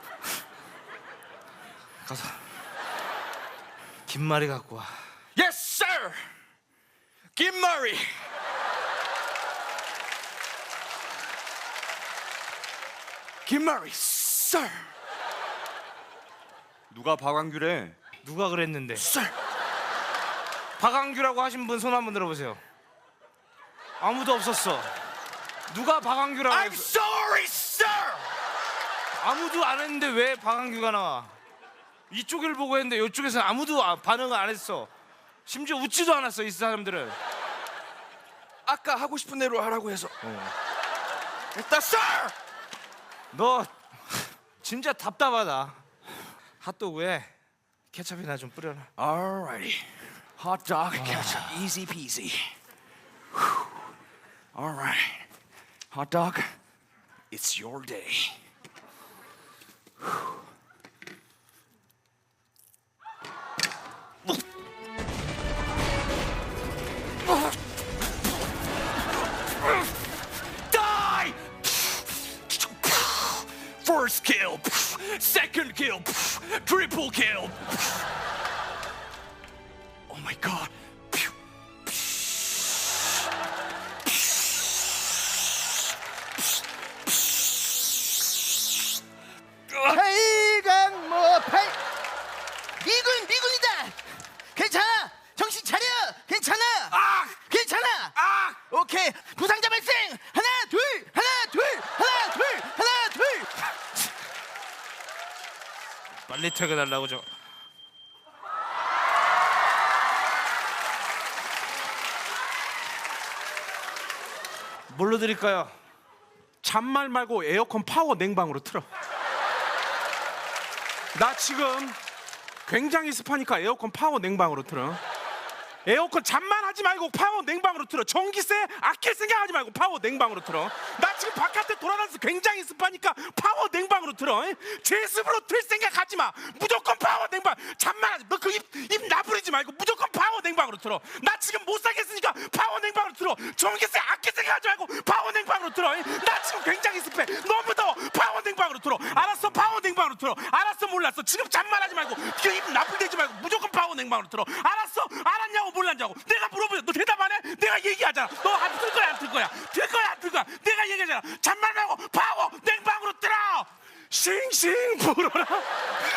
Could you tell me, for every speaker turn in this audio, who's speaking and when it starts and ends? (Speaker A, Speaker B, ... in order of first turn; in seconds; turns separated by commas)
Speaker A: 2.0-2.4, Speaker A: 4.1-4.9, Speaker B: 5.3-6.3, Speaker B: 7.4-8.2, Speaker B: 13.4-14.9, Speaker B: 16.9-18.0, Speaker A: 18.2-19.1, Speaker B: 19.0-19.4, Speaker A: 20.8-22.6, Speaker A: 24.0-24.9, Speaker A: 25.7-26.9, Speaker B: 26.5-28.3, Speaker A: 29.2-31.4, Speaker A: 32.1-34.9, Speaker A: 35.5-37.2, Speaker B: 38.7-40.1, Speaker A: 40.2-40.5, Speaker B: 41.5-42.4, Speaker A: 43.3-43.7, Speaker A: 44.6-45.8, Speaker A: 46.6-47.3, Speaker A: 47.9-48.9, Speaker B: 49.0-52.5, Speaker A: 51.0-51.5, Speaker B: 54.5-55.3, Speaker B: 55.9-56.6, Speaker B: 57.3-58.4, Speaker B: 70.7-78.0, Speaker B: 80.1-81.3, Speaker C: 89.9-91.8, Speaker C: 92.8-94.0, Speaker C: 94.5-103.7, Speaker A: 96.9-97.3, Speaker A: 98.2-98.5, Speaker A: 106.3-107.3, Speaker A: 114.9-115.7, Speaker D: 116.6-118.9, Speaker D: 121.1-122.0, Speaker D: 122.7-125.0, Speaker D: 125.9-165.7